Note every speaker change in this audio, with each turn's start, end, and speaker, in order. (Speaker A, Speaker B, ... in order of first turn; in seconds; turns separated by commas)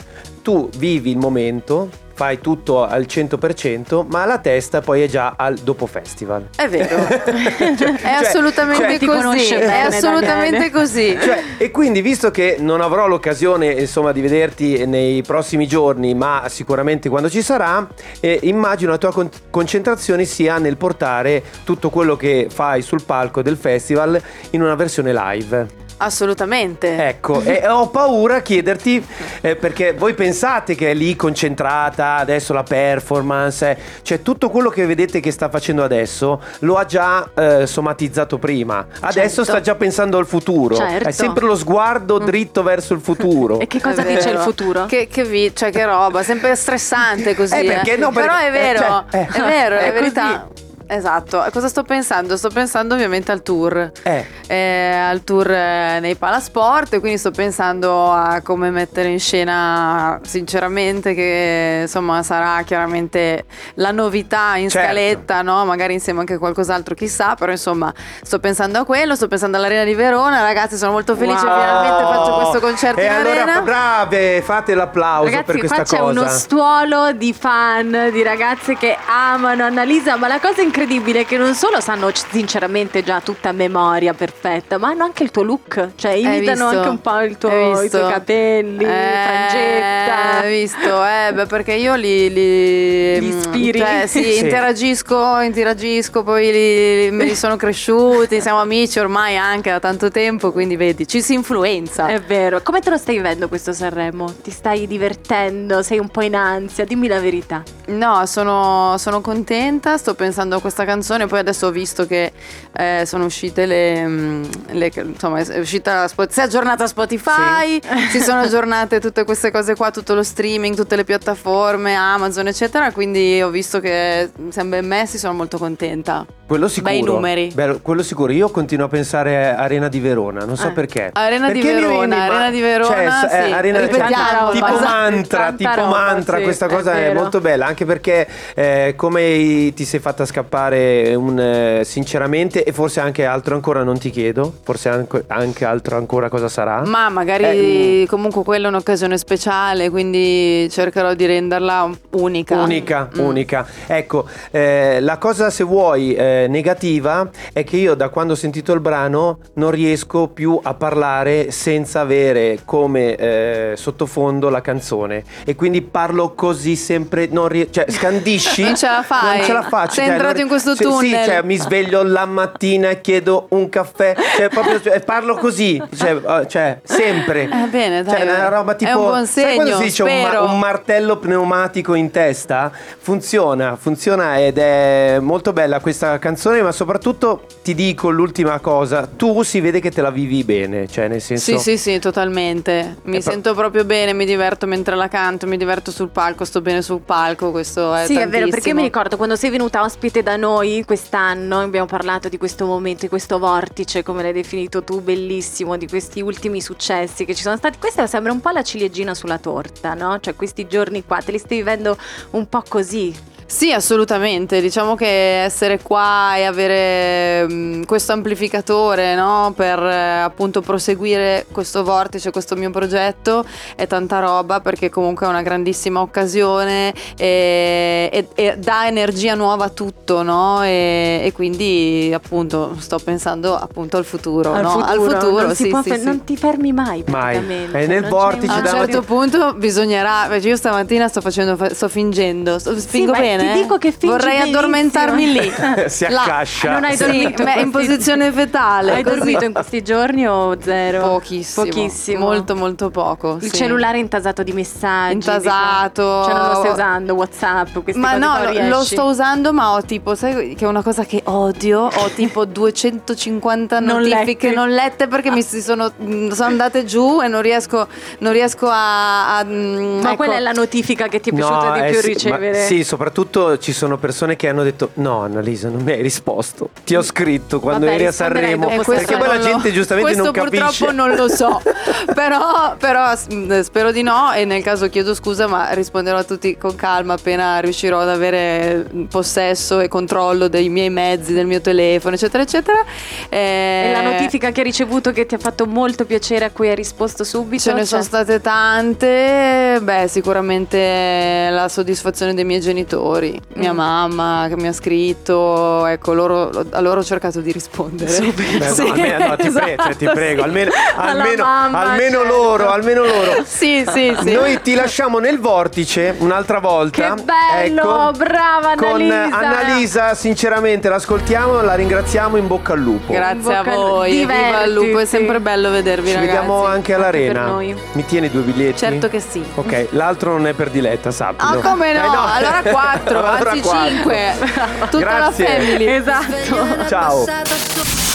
Speaker A: 0.4-10.1, Speaker B: 6.6-7.2, Speaker C: 7.3-8.0, Speaker B: 7.9-11.2, Speaker C: 8.7-11.4, Speaker A: 11.1-25.7, Speaker B: 26.0-27.1, Speaker A: 27.0-44.4, Speaker B: 39.1-39.6, Speaker C: 40.7-41.4, Speaker C: 43.6-44.9, Speaker B: 43.8-73.7, Speaker A: 47.5-49.9, Speaker C: 49.4-50.4, Speaker A: 64.7-65.2, Speaker A: 71.2-76.5, Speaker C: 75.2-90.9, Speaker B: 86.2-88.2, Speaker B: 88.8-102.1, Speaker C: 93.2-94.3, Speaker A: 94.3-94.7, Speaker C: 102.0-107.7, Speaker B: 107.9-127.6, Speaker A: 117.3-117.7, Speaker A: 126.5-148.0, Speaker B: 131.2-135.0, Speaker C: 133.6-137.3, Speaker B: 146.8-153.4, Speaker A: 152.5-191.7, Speaker B: 168.6-171.5, Speaker B: 177.5-180.6, Speaker B: 191.4-198.9, Speaker C: 198.0-213.2, Speaker B: 213.5-236.2, Speaker C: 234.5-239.0, Speaker A: 237.1-239.0, Speaker B: 238.5-249.5, Speaker C: 242.8-245.8, Speaker A: 245.6-247.6, Speaker C: 246.6-248.2, Speaker C: 248.8-252.5, Speaker A: 248.9-249.6, Speaker B: 251.0-253.8, Speaker C: 253.4-259.1, Speaker B: 255.1-256.8, Speaker B: 257.9-270.4, Speaker C: 263.8-264.6, Speaker C: 270.0-272.8, Speaker A: 271.3-281.6, Speaker C: 277.7-279.4, Speaker B: 278.7-294.3, Speaker C: 293.8-298.1, Speaker B: 297.6-309.4, Speaker C: 303.6-303.8, Speaker C: 308.0-313.4, Speaker A: 308.6-313.4, Speaker B: 313.4-314.6, Speaker C: 314.1-314.6, Speaker A: 314.2-318.2, Speaker C: 316.9-319.9, Speaker A: 318.8-323.3, Speaker B: 323.1-326.8, Speaker C: 323.2-325.4, Speaker A: 326.1-334.4, Speaker C: 326.7-327.8, Speaker B: 328.8-329.6, Speaker B: 331.4-337.8, Speaker C: 334.4-334.9, Speaker A: 334.9-335.8, Speaker C: 335.6-337.0, Speaker A: 336.8-337.3